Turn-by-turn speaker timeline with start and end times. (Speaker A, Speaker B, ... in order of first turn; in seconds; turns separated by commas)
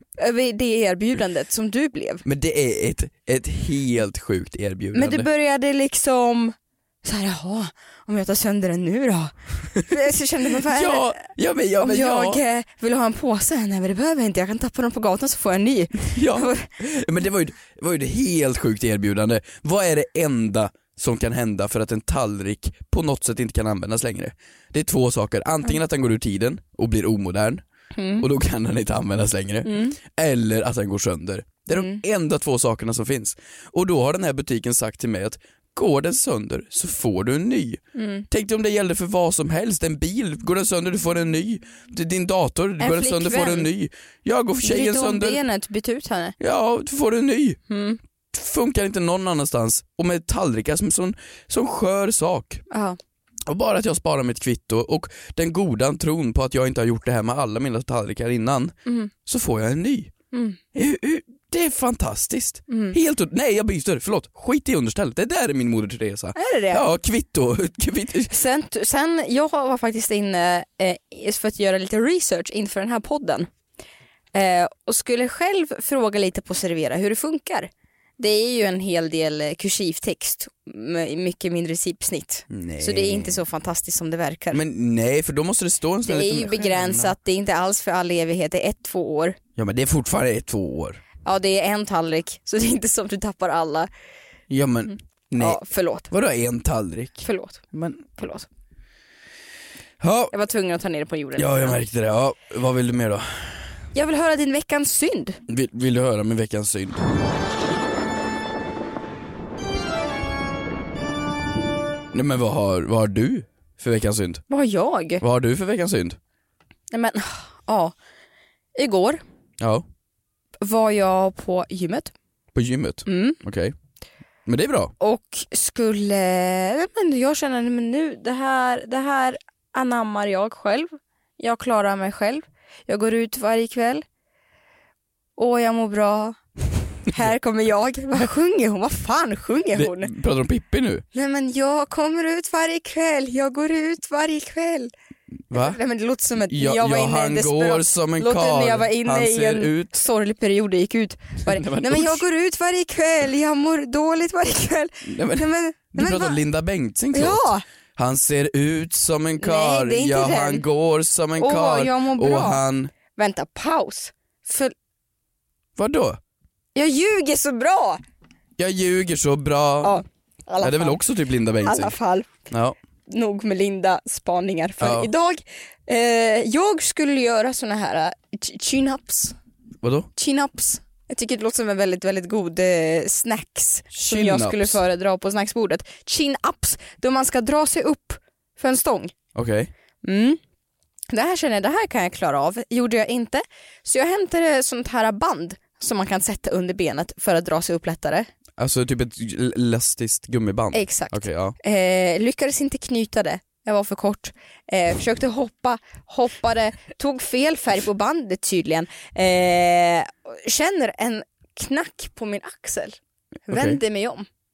Speaker A: 0.2-2.2, Speaker B: 2.2-5.3, Speaker A: 4.9-11.1, Speaker B: 10.6-12.4, Speaker A: 11.8-16.7, Speaker B: 16.1-27.6, Speaker A: 28.0-28.2, Speaker B: 28.2-45.4, Speaker A: 29.6-30.0, Speaker A: 31.8-32.0, Speaker A: 38.0-38.3, Speaker A: 42.8-43.7, Speaker A: 44.6-46.4, Speaker B: 46.4-47.6, Speaker A: 47.7-48.0, Speaker B: 48.3-52.6, Speaker A: 52.7-53.0, Speaker B: 53.5-60.1, Speaker A: 58.9-59.1, Speaker A: 60.3-60.6, Speaker B: 60.7-68.3, Speaker A: 62.7-63.0, Speaker A: 66.4-66.8, Speaker A: 68.3-73.5, Speaker A: 74.3-84.6, Speaker B: 82.5-83.4, Speaker B: 84.5-87.1, Speaker A: 86.1-89.4, Speaker B: 89.6-91.0, Speaker A: 91.2-93.9, Speaker B: 94.5-98.1, Speaker A: 95.4-96.1, Speaker A: 97.2-97.6, Speaker A: 98.2-98.5, Speaker B: 100.0-100.3, Speaker A: 100.3-101.8, Speaker B: 101.4-103.7, Speaker A: 104.0-105.4, Speaker B: 105.5-107.0, Speaker B: 112.1-114.4, Speaker A: 114.5-115.2, Speaker B: 115.2-116.2, Speaker A: 116.9-118.0, Speaker A: 118.8-119.2, Speaker B: 119.6-119.9, Speaker A: 120.6-122.1, Speaker B: 122.5-123.7, Speaker A: 123.1-123.4, Speaker B: 124.5-124.9, Speaker A: 125.0-134.0, Speaker A: 135.4-136.4, Speaker A: 137.1-140.1, Speaker B: 139.8-141.1, Speaker A: 141.1-144.9, Speaker B: 145.5-145.8, Speaker A: 145.5-156.4, Speaker B: 146.5-149.9, Speaker B: 151.5-152.2, Speaker B: 155.1-162.9, Speaker A: 157.1-157.6, Speaker A: 159.4-160.6, Speaker A: 161.4-162.6, Speaker A: 163.2-164.7, Speaker B: 165.8-166.2, Speaker A: 166.8-168.0, Speaker B: 168.6-170.0, Speaker A: 169.8-171.0, Speaker B: 170.6-172.0, Speaker A: 171.6-172.3, Speaker B: 172.5-172.8, Speaker A: 173.1-179.4, Speaker B: 174.8-175.1, Speaker B: 179.8-180.1, Speaker A: 180.2-189.1, Speaker B: 183.9-184.8, Speaker B: 189.3-189.7, Speaker A: 190.0-190.4, Speaker A: 191.1-198.3, Speaker B: 198.6-201.6, Speaker A: 200.7-214.3, Speaker B: 213.5-213.8